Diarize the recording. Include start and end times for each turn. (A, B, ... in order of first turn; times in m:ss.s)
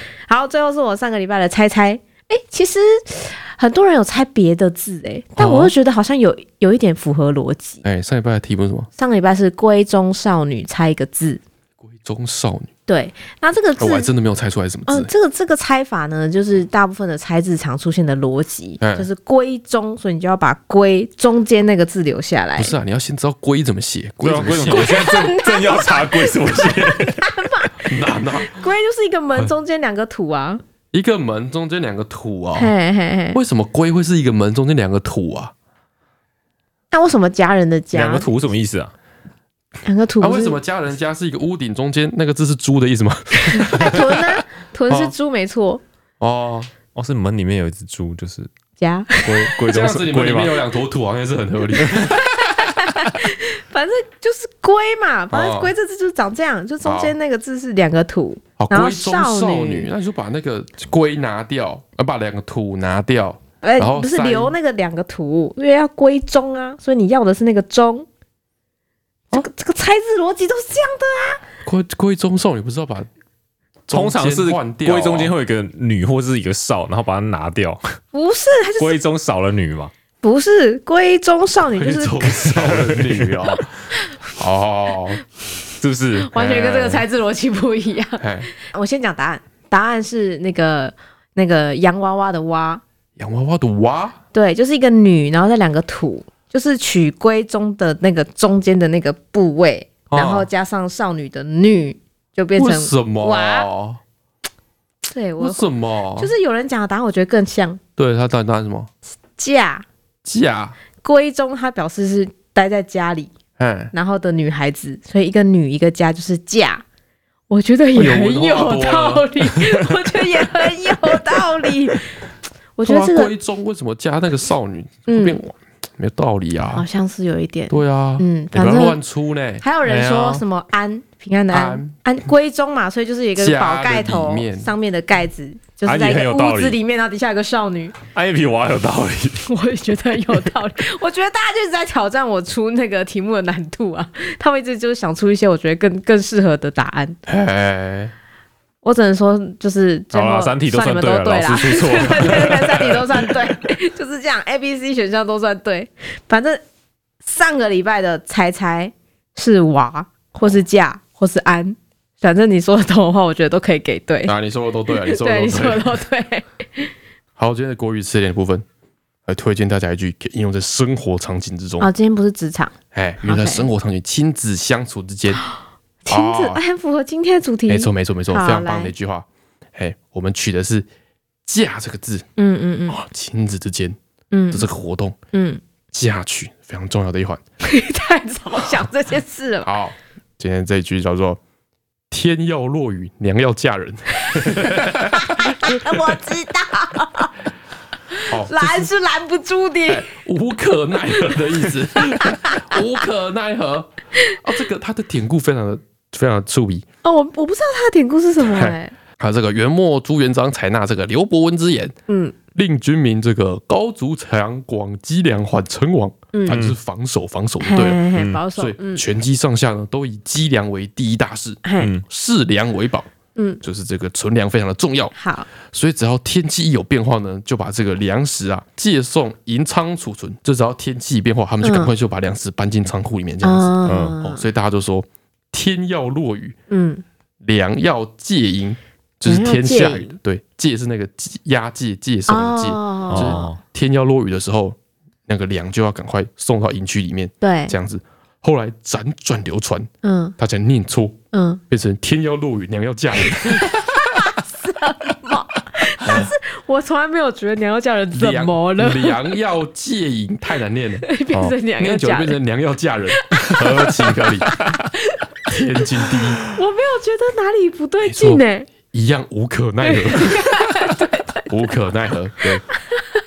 0:00.3-0:07.8 A
0:05.4-0:05.7 B
0:07.8-0:08.9 B
0:09.0-0:11.4 A
0:11.9-0:12.7 B
0:12.9-0:14.1 A
0:13.8-0:15.1 B
0:14.9-0:22.7 A
0:18.8-0:19.1 B
0:22.6-0:25.1 B
0:24.2-0:27.2 C
0:24.7-0:30.6 A
0:27.8-0:28.6 B
0:30.9-0:32.7 B
0:32.6-0:33.4 A
0:33.3-0:35.5 B
0:36.9-0:38.3 A
0:37.9-0:38.9 C
0:39.8-0:40.6 A
0:40.2-0:45.1 B
0:43.5-0:45.8 A
0:46.2-0:46.7 B
0:47.0-0:48.5 C
0:48.8-0:49.6 A
0:49.2-0:50.6 C
0:49.6-0:52.5 B
0:51.8-0:59.9 A
0:55.3-0:55.7 B
0:56.8-0:57.1 B
0:58.6-1:04.5 B
1:03.6-1:08.1 A
1:09.3-1:11.4 A
1:11.6-1:13.1 B
1:13.9-1:15.3 B
1:13.9-1:17.8 C
1:18.1-1:19.0 A
1:18.8-1:19.9 C
1:20.2-1:22.5 A
1:21.8-1:25.2 B
1:22.6-1:23.2 C
1:25.8-1:26.3 C
1:26.2-1:32.8 A
1:26.3-1:27.0 B
1:28.2-1:28.5 B
1:33.2-1:34.2 B
1:34.3-1:43.7 A
1:40.1-1:40.5 B
1:42.6-1:44.0 B
1:45.1-1:47.8 A
1:45.4-1:46.3 B
1:48.0-1:48.9 B
1:49.4-1:49.8 A
1:50.2-1:50.8 B
1:51.0-1:53.3 A
1:53.6-1:53.9 B
1:53.9-1:56.8 A
1:57.5-2:02.2 A
1:57.9-2:00.1 B
2:02.8-2:03.3 A
2:02.8-2:06.9 B
2:05.1-2:05.4 A
2:06.7-2:09.0 A
2:07.7-2:09.6 B
2:09.6-2:18.0 A
2:09.8-2:10.4 C
2:11.5-2:12.0 B
2:13.4-2:14.7 B
2:15.9-2:16.8 C
2:18.1-2:19.4 C
2:19.4-2:27.2 A
2:27.3-2:28.1 B
2:28.8-2:36.6 A
2:30.1-2:32.8 C
2:37.2-2:44.3 A
2:44.2-2:46.0 B
2:44.9-2:46.9 A
2:47.4-2:48.6 B
2:49.3-2:51.9 B
2:51.8-2:53.7 A
2:52.9-2:55.4 B
2:55.4-2:58.9 A
2:56.1-2:56.6 B
2:57.7-3:00.9 B
3:01.4-3:02.3 B
3:02.4-3:03.0 A
3:02.9-3:04.0 B
3:04.3-3:04.7 A
3:04.5-3:05.2 B
3:05.3-3:05.6 A
3:05.9-3:07.4 B
3:07.6-3:09.7 A
3:09.6-3:11.4 B
3:12.1-3:16.1 B
3:14.3-3:17.3 A
3:18.1-3:20.1 A
3:18.3-3:18.9 B
3:19.9-3:23.9 B
3:21.1-3:22.8 A
3:24.4-3:26.8 B
3:27.0-3:28.9 A
3:28.4-3:32.0 B
3:32.1-3:32.4 A
3:32.5-3:43.1 B
3:36.3-3:36.6 A
3:36.5-3:36.7 C
3:37.6-3:39.0 A
3:38.1-3:38.4 C
3:41.6-3:41.9 A
3:43.4-3:43.6 A
3:43.6-3:56.6 B
3:45.2-3:45.5 A
3:51.6-3:51.9 A
3:53.4-3:54.4 A
3:53.8-3:54.2 C
3:56.7-3:57.0 A
3:57.4-4:11.2 B
3:59.2-4:00.1 A
4:02.3-4:03.5 A
4:03.1-4:03.6 C
4:07.4-4:07.7 A
4:10.0-4:10.4 A
4:11.3-4:11.6 A
4:11.7-4:13.8 B
4:13.3-4:19.2 A
4:16.0-4:16.3 B
4:18.1-4:24.6 B
4:21.0-4:22.4 A
4:23.4-4:25.6 A
4:25.5-4:26.4 B
4:26.4-4:28.7 A
4:28.0-4:30.8 B
4:29.8-4:31.4 A
4:31.5-4:32.6 B
4:32.7-4:33.0 A